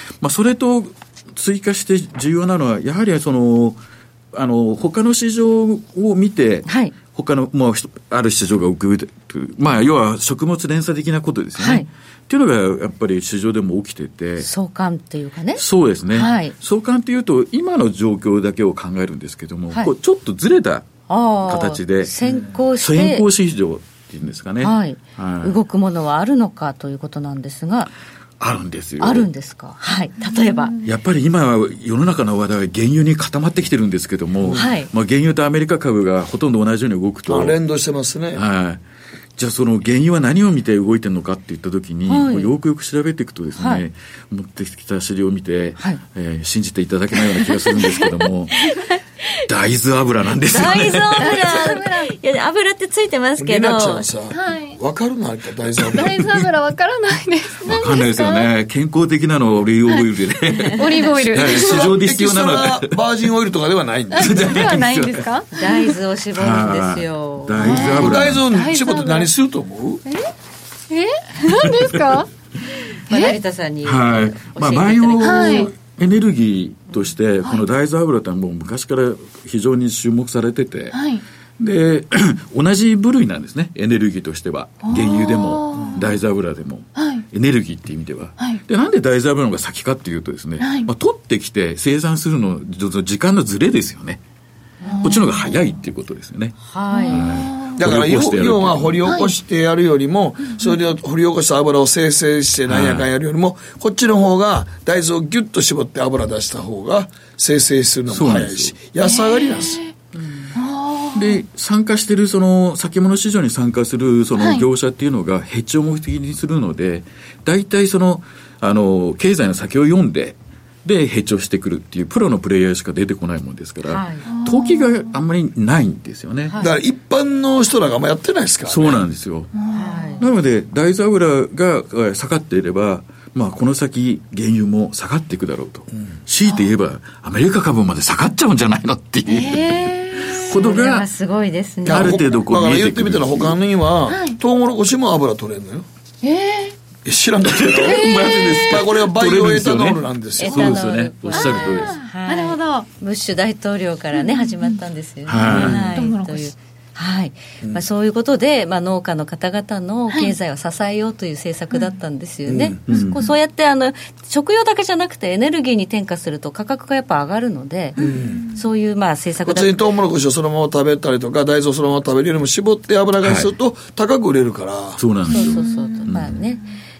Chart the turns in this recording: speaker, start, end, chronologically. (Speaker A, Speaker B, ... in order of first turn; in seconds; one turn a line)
Speaker A: 0.2-3.8
Speaker A: 4.3-14.5
Speaker B: 6.7-6.9
Speaker B: 11.6-11.9
Speaker B: 14.4-16.5
Speaker A: 15.6-20.9
Speaker B: 21.1-23.2
Speaker A: 21.4-25.6
Speaker B: 24.6-27.9
Speaker A: 28.4-29.3
Speaker B: 29.0-30.7
Speaker C: 30.2-30.8
Speaker A: 30.8-37.6
Speaker B: 34.5-34.9
Speaker D: 37.2-38.4
Speaker A: 38.3-38.8
Speaker A: 39.4-48.6
Speaker B: 42.1-42.5
Speaker B: 43.6-43.8
Speaker B: 47.4-47.8
Speaker B: 48.6-49.0
Speaker A: 49.5-51.4
Speaker B: 50.5-54.1
Speaker C: 51.2-52.1
Speaker D: 53.4-56.2
Speaker C: 54.3-54.8
Speaker C: 55.9-58.5
Speaker A: 57.6-62.9
Speaker C: 60.8-61.9
Speaker D: 61.3-64.5
Speaker A: 64.1-65.3
Speaker C: 64.1-65.9
Speaker B: 65.5-67.8
Speaker A: 66.3-68.4
Speaker C: 67.6-69.3
Speaker D: 67.6-70.0
Speaker C: 70.1-70.3
Speaker C: 70.9-72.3
Speaker C: 73.1-73.4
Speaker B: 73.1-75.7
Speaker A: 73.8-81.0
Speaker C: 75.2-75.7
Speaker C: 80.9-81.2
Speaker A: 81.6-94.2
Speaker C: 84.8-86.0
Speaker C: 87.0-87.2
Speaker C: 90.6-90.9
Speaker C: 94.8-95.6
Speaker A: 95.0-96.6
Speaker B: 96.7-97.3
Speaker C: 96.9-97.8
Speaker A: 97.1-99.1
Speaker D: 97.7-109.8
Speaker C: 99.1-99.3
Speaker A: 102.7-103.1
Speaker A: 108.1-108.8
Speaker C: 109.0-109.9
Speaker C: 110.5-111.4
Speaker A: 111.1-126.5
Speaker C: 114.4-114.7
Speaker B: 123.8-124.2
Speaker C: 124.3-125.0
Speaker D: 126.6-129.0
Speaker A: 128.7-129.5
Speaker C: 129.6-130.2
Speaker B: 129.7-130.2
Speaker A: 130.2-141.1
Speaker C: 139.3-140.4
Speaker B: 140.5-142.2
Speaker D: 141.8-145.8
Speaker A: 141.9-143.6
Speaker C: 144.1-144.4
Speaker C: 146.2-146.7
Speaker D: 147.0-150.8
Speaker A: 147.4-152.0
Speaker C: 147.8-148.7
Speaker B: 150.4-168.0
Speaker C: 151.3-152.9
Speaker C: 154.1-154.8
Speaker A: 155.3-155.8
Speaker D: 155.4-155.8
Speaker C: 155.4-156.5
Speaker D: 162.4-162.8
Speaker A: 162.9-163.2
Speaker D: 168.0-168.4
Speaker C: 168.0-168.5
Speaker B: 168.5-169.8
Speaker D: 169.4-175.0
Speaker A: 173.2-173.5
Speaker A: 175.0-176.3
Speaker B: 175.3-176.6
Speaker C: 175.3-176.0